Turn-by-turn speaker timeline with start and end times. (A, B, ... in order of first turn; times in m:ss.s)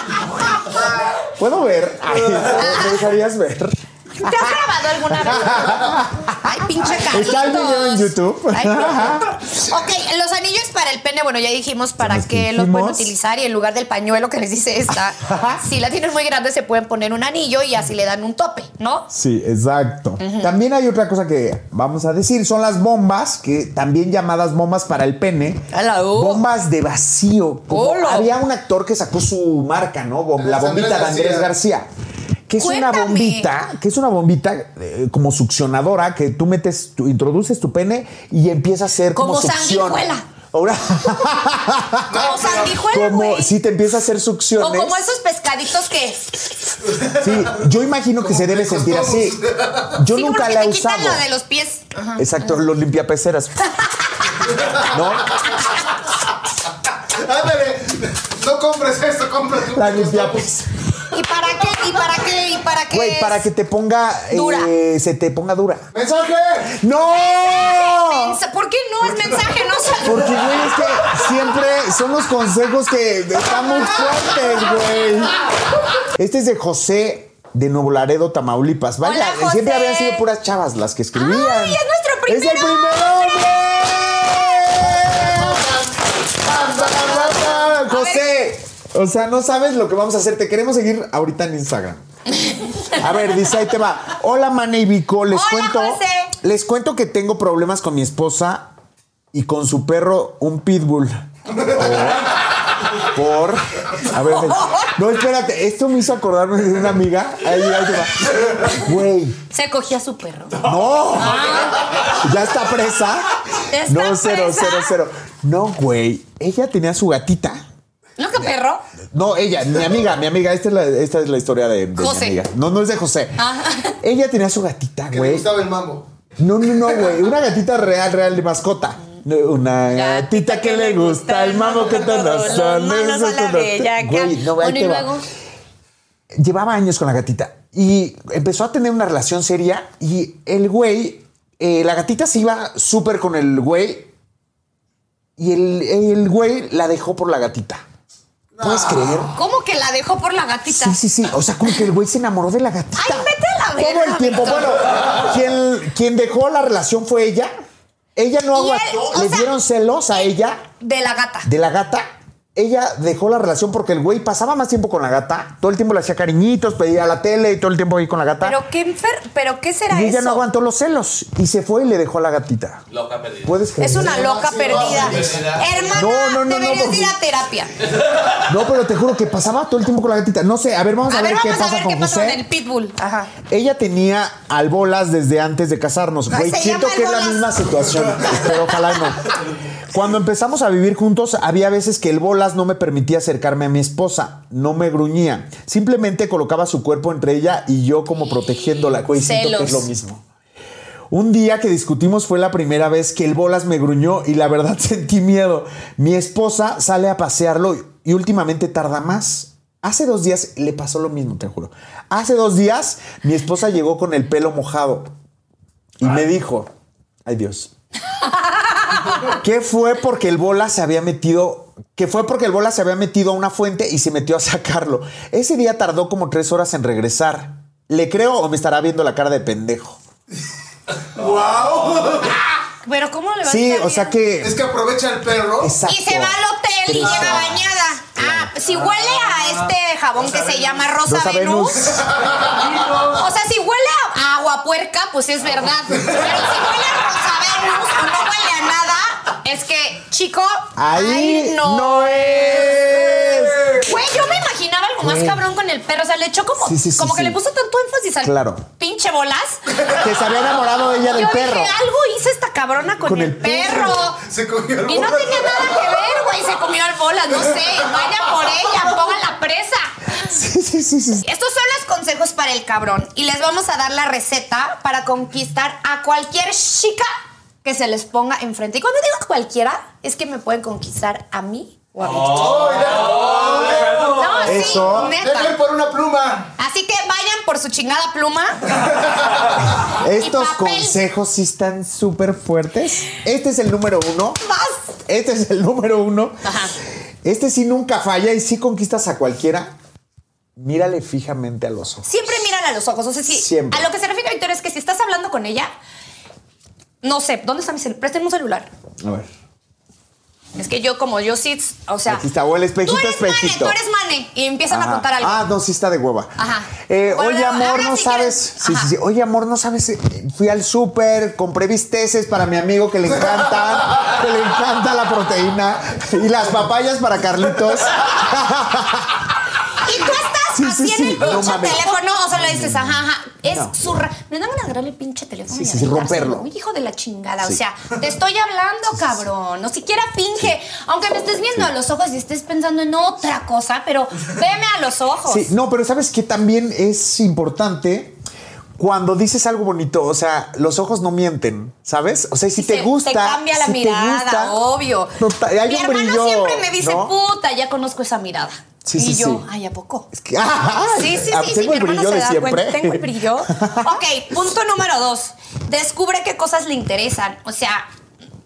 0:00.7-0:04.6 A
0:02.5-0:03.0 B
0:04.2-0:19.1 B
0:05.1-0:09.4 A
0:12.0-0:13.1 A
0:15.1-0:15.6 A
0:19.1-0:31.9 A
0:20.2-0:20.5 B
0:25.7-0:26.5 B
0:27.7-0:28.3 B
0:30.4-0:31.5 C
0:32.5-0:45.1 A
0:32.6-0:33.5 B
0:39.1-0:40.2 B
0:42.1-0:43.5 B
0:42.1-0:42.7 C
0:44.6-0:46.5 B
0:47.0-0:49.4 A
0:48.2-0:50.0 C
0:49.9-0:51.2 A
0:50.1-0:52.6 B
0:52.2-0:53.7 A
0:54.5-0:55.5 C
0:54.8-0:55.5 A
0:57.1-1:00.5 C
0:59.7-1:00.7 A
1:01.1-1:03.4 B
1:02.9-1:05.9 A
1:04.3-1:04.7 B
1:05.9-1:06.8 C
1:06.7-1:08.4 A
1:07.1-1:10.8 B
1:10.0-1:15.4 A
1:13.4-1:14.8 B
1:16.1-1:25.8 A
1:19.0-1:20.2 B
1:21.1-1:25.2 B
1:25.3-1:25.8 C
1:26.4-1:32.0 A
1:26.8-1:28.3 B
1:32.4-1:33.0 B
1:32.9-1:38.7 A
1:35.3-1:36.3 B
1:39.3-1:49.4 A
1:44.2-1:44.9 B
1:49.5-1:52.1 B
1:50.6-1:57.6 A
1:53.6-1:55.0 B
1:58.2-1:58.8 B
1:59.1-2:05.5 A
2:02.0-2:02.4 B
2:03.4-2:04.0 B
2:05.1-2:06.1 C
2:06.4-2:15.1 A
2:09.9-2:15.3 B
2:16.3-2:24.1 A
2:25.4-2:27.8 A
2:28.6-2:29.4 A
2:29.3-2:31.0 B
2:30.7-2:37.5 A
2:33.0-2:34.8 B
2:38.2-2:40.6 A
2:38.5-2:39.5 B
2:40.8-2:41.5 B
2:41.4-2:48.6 A
2:48.4-2:50.4 B
2:49.9-2:52.8 A
2:52.9-2:53.6 D
2:53.4-2:55.1 A
2:53.8-2:57.7 B
2:54.0-2:55.7 C
2:54.8-2:55.9 D
2:55.9-2:57.2 A
2:58.4-3:02.4 A
3:01.1-3:03.3 B
3:03.5-3:09.4 A
3:06.3-3:07.7 B
3:08.3-3:08.9 B
3:09.9-3:20.2 A
3:19.1-3:19.9 B
3:21.1-3:35.1 A
3:36.0-3:36.7 A
3:37.2-3:37.7 A
3:38.3-3:39.2 B
3:39.2-3:50.0 A
3:51.1-3:52.4 C
3:52.8-3:54.2 B
3:53.4-3:54.6 A
3:54.4-3:55.8 C
3:55.6-3:58.5 A
3:55.8-4:02.0 B
4:01.0-4:02.1 A
4:02.2-4:02.6 C
4:02.9-4:19.6 B
4:10.8-4:13.9 A
4:15.0-4:15.4 A
4:16.6-4:17.4 A
4:18.2-4:18.6 A
4:19.8-4:21.8 A
4:21.1-4:24.2 B
4:23.0-4:24.0 A
4:24.2-4:25.9 C
4:24.8-4:29.9 B
4:30.2-4:31.2 A
4:31.2-4:37.1 B
4:37.6-4:42.9 B
4:42.2-4:44.4 D
4:42.3-4:44.2 C
4:43.9-4:45.5 B
4:44.4-4:45.2 A
4:44.8-4:46.5 C
4:46.6-4:48.8 B
4:49.8-4:54.4 A
4:50.2-4:51.0 B
4:54.4-4:54.9 B
4:55.0-4:56.5 A
4:56.4-4:56.7 B
4:57.2-4:59.7 A
5:00.6-5:02.1 A
5:02.0-5:05.7 B
5:03.3-5:03.9 A
5:07.0-5:08.7 B
5:09.0-5:09.3 A
5:10.6-5:12.2 B
5:12.0-5:13.8 A
5:12.8-5:15.4 B
5:14.7-5:29.3 A
5:16.4-5:18.9 B
5:29.8-5:45.5 B
5:30.5-5:33.8 A
5:35.5-5:36.4 A
5:45.2-5:48.2 A
5:48.8-5:54.6 A
5:52.6-6:00.1 B
5:55.2-5:57.1 A
5:58.8-5:59.4 A
6:00.1-6:04.0 A
6:00.9-6:07.9 B